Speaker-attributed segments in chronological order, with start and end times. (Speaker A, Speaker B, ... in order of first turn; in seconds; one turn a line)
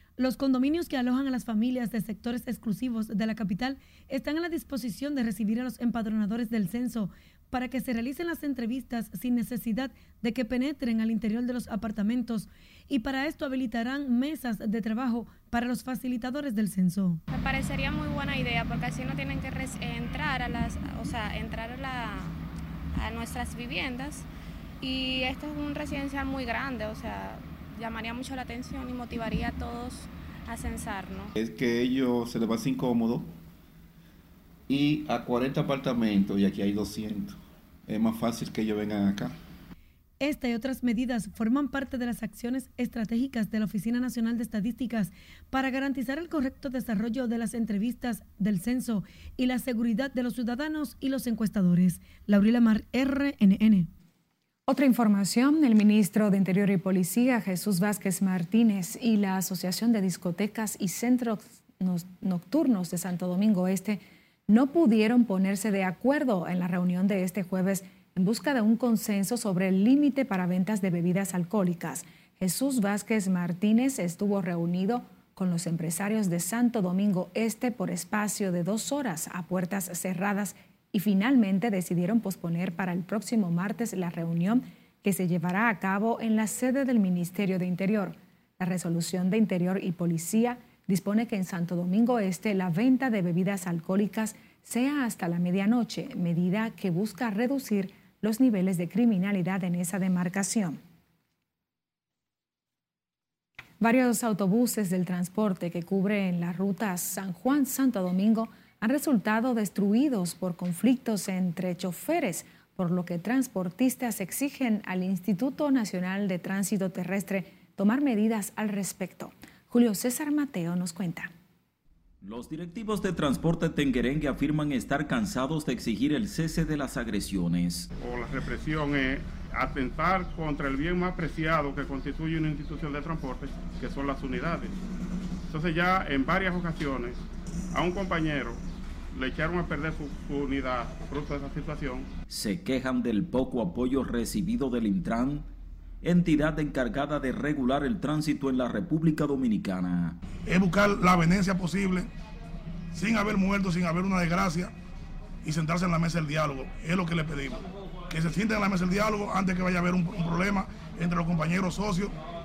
Speaker A: 0.2-17.2
Speaker B: 17.3-22.4
Speaker B: 22.9-24.2
Speaker B: 24.8-31.3
Speaker C: 31.4-33.2
Speaker C: 34.7-37.3
Speaker C: 37.9-39.0
Speaker A: 40.2-53.9
Speaker D: 54.7-100.8
Speaker D: 103.8-121.3
Speaker E: 122.2-127.9
Speaker F: 128.0-134.7
Speaker F: 135.5-137.2
Speaker F: 137.7-138.6
Speaker F: 139.1-142.1
Speaker E: 142.3-145.5
Speaker E: 146.0-150.2
Speaker G: 150.5-152.1
Speaker G: 152.9-154.7
Speaker G: 155.4-162.1